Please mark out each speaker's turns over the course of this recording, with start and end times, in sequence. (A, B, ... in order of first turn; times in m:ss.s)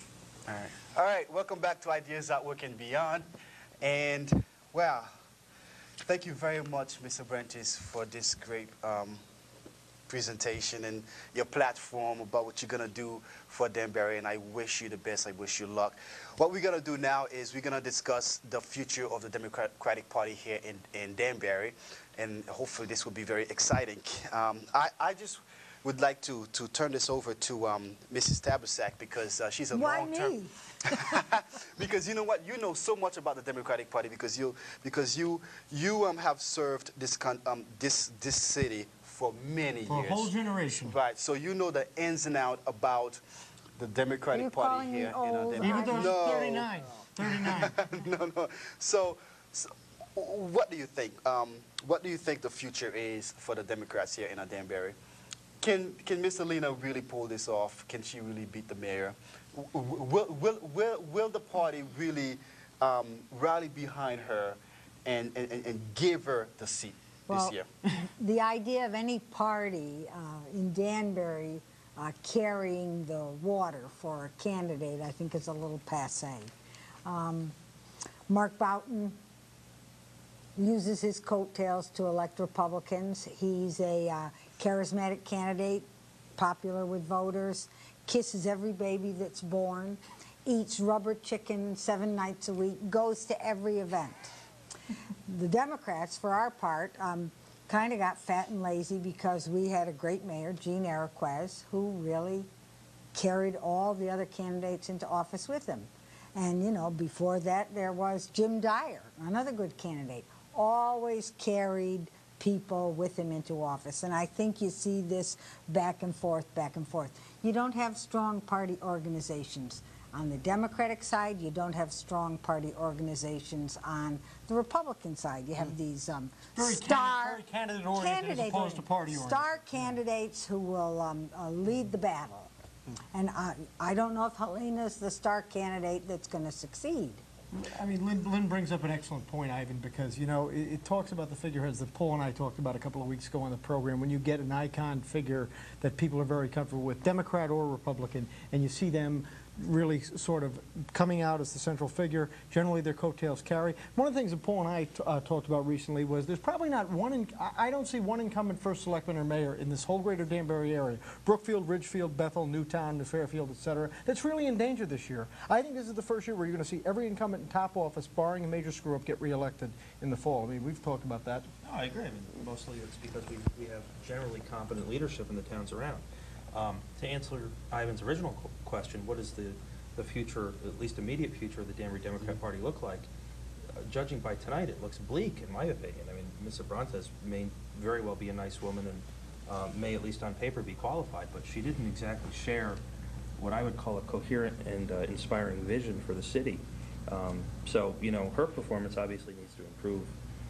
0:00.5-0:03.3 A
0:03.8-0:05.1 A
0:06.0-0:09.2 A
0:10.1-0:30.4 A
0:29.7-0:31.1 B
0:31.1-0:43.2 A
0:39.8-0:41.0 C
0:43.8-0:55.0 A
0:44.3-0:46.1 B
0:45.6-0:47.8 C
0:55.6-1:07.7 A
1:07.3-1:16.5 B
1:17.0-1:17.5 B
1:18.3-1:19.2 B
1:20.6-1:25.8 B
1:26.4-1:34.3 B
1:35.3-1:42.5 B
1:43.1-2:12.5 B
2:06.5-2:10.0 C
2:13.1-2:17.2 B
2:17.5-2:51.5 C
2:51.6-3:03.1 D
3:03.8-3:12.8 D
3:13.4-3:20.1 D